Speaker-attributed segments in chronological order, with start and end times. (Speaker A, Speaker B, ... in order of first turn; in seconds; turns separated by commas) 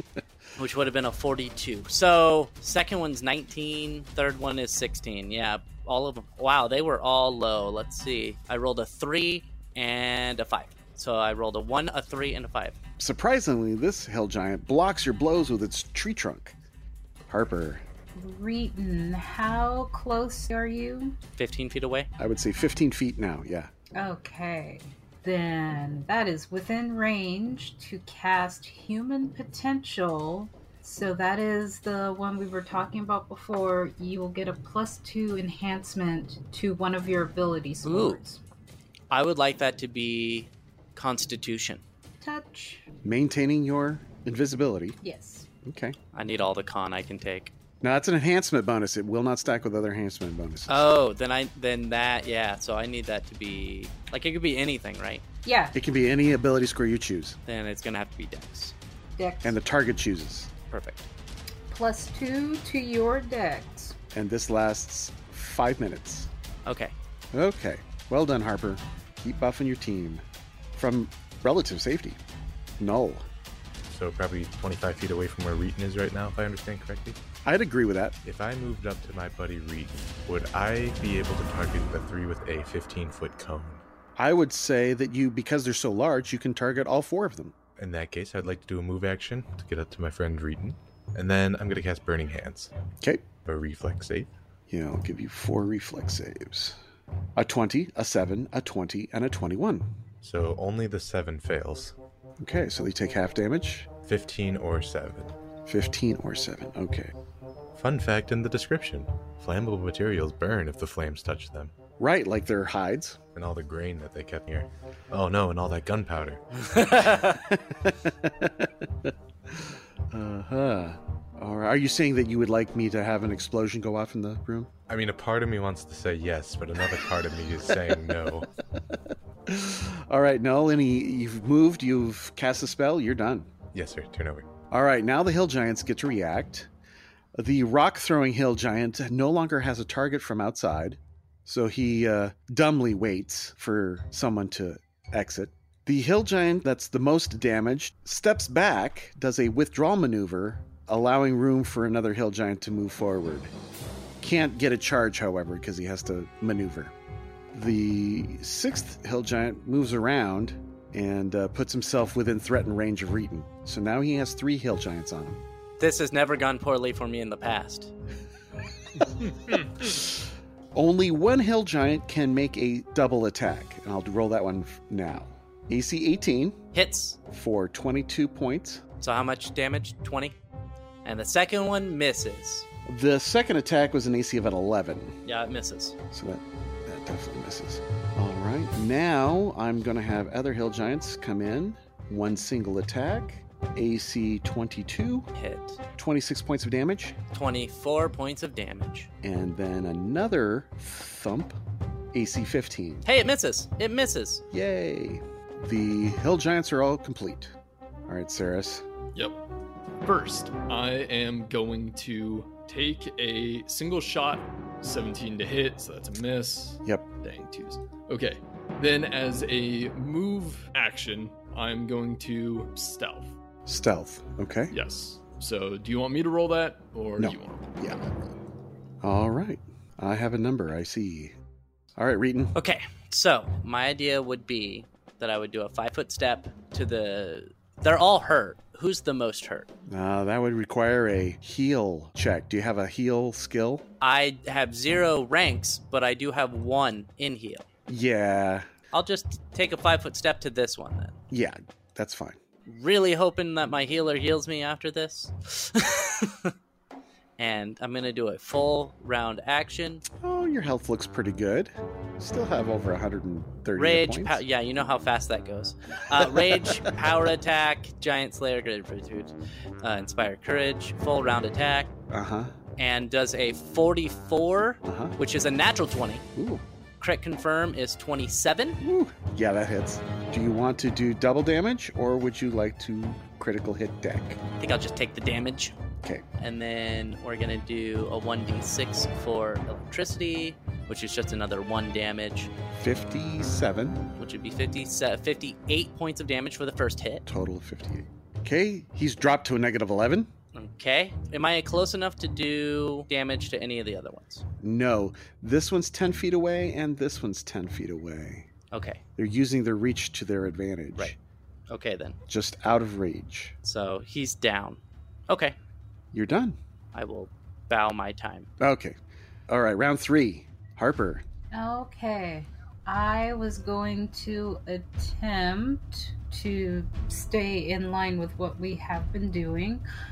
Speaker A: 0.6-12.8, Speaker B: 13.0-16.5, Speaker B: 17.3-17.8, Speaker C: 18.1-21.2, Speaker A: 21.4-22.1, Speaker B: 22.2-23.7, Speaker C: 23.9-38.4, Speaker A: 37.8-38.2, Speaker A: 39.1-41.8, Speaker C: 42.2-42.8, Speaker B: 43.0-45.0, Speaker C: 45.0-45.5, Speaker B: 45.6-46.0, Speaker A: 46.1-47.5, Speaker B: 47.8-50.9, Speaker A: 50.7-55.2, Speaker C: 55.5-55.8, Speaker B: 55.8-57.4, Speaker A: 57.5-58.8, Speaker C: 59.2-59.5, Speaker B: 59.4-60.5, Speaker A: 60.7-61.0, Speaker C: 61.7-64.0, Speaker B: 64.1-66.3, Speaker A: 66.7-66.9, Speaker B: 67.3-70.2, Speaker B: 70.8-72.2, Speaker B: 72.8-73.3, Speaker D: 73.9-77.2, Speaker B: 77.5-78.2, Speaker D: 78.2-83.8, Speaker B: 84.2-87.5, Speaker D: 87.8-92.7, Speaker B: 93.0-93.3, Speaker D: 93.5-94.3, Speaker B: 94.7-96.8, Speaker B: 97.3-99.9, Speaker D: 100.2-102.0, Speaker B: 102.4-103.9, Speaker D: 103.9-105.3, Speaker B: 105.7-107.1, Speaker D: 107.7-111.7, Speaker B: 112.0-113.2, Speaker D: 113.3-116.4, Speaker A: 116.6-117.4, Speaker B: 117.5-124.7, Speaker D: 124.9-128.5, Speaker B: 129.5-133.5, Speaker D: 133.7-134.5, Speaker B: 134.7-136.7, Speaker B: 137.3-153.5, Speaker B: 154.2-156.9, Speaker B: 157.5-165.4, Speaker A: 165.8-167.9, Speaker E: 169.4-169.8, Speaker B: 169.9-170.2, Speaker B: 170.7-176.6, Speaker A: 176.7-177.2, Speaker B: 177.3-178.8, Speaker A: 179.0-180.4, Speaker A: 181.0-182.7, Speaker B: 182.8-185.2, Speaker A: 185.2-186.0, Speaker B: 186.1-195.3, Speaker A: 195.3-195.8, Speaker B: 196.0-197.2, Speaker A: 197.3-199.1, Speaker B: 199.2-201.6, Speaker B: 202.1-203.0, Speaker A: 203.0-204.4, Speaker B: 204.5-207.5, Speaker B: 208.1-208.8, Speaker E: 210.0-223.3, Speaker B: 223.7-224.8, Speaker E: 224.7-227.8, Speaker B: 227.2-228.3, Speaker B: 229.0-231.3, Speaker B: 232.0-232.5, Speaker A: 232.5-239.7, Speaker B: 239.9-243.8, Speaker A: 244.0-247.7, Speaker B: 247.9-248.7, Speaker A: 248.9-251.2, Speaker B: 251.3-252.4, Speaker A: 252.7-256.5, Speaker A: 257.4-260.0, Speaker B: 260.2-264.4, Speaker A: 263.8-271.9, Speaker B: 266.2-266.9, Speaker B: 272.1-272.5, Speaker A: 272.8-276.2, Speaker B: 274.9-275.2, Speaker B: 276.4-276.6, Speaker A: 277.0-278.8, Speaker B: 278.8-284.4, Speaker A: 284.6-285.8, Speaker A: 286.4-292.5, Speaker B: 292.8-294.0, Speaker A: 294.2-297.2, Speaker B: 297.2-300.3, Speaker A: 300.5-304.4, Speaker B: 304.6-308.5, Speaker A: 308.7-309.0, Speaker B: 309.2-311.2, Speaker A: 311.7-312.2, Speaker B: 312.3-313.6, Speaker A: 313.6-315.6, Speaker B: 316.1-316.6, Speaker A: 316.9-318.5, Speaker B: 318.6-319.0, Speaker B: 319.5-321.2, Speaker C: 321.5-329.9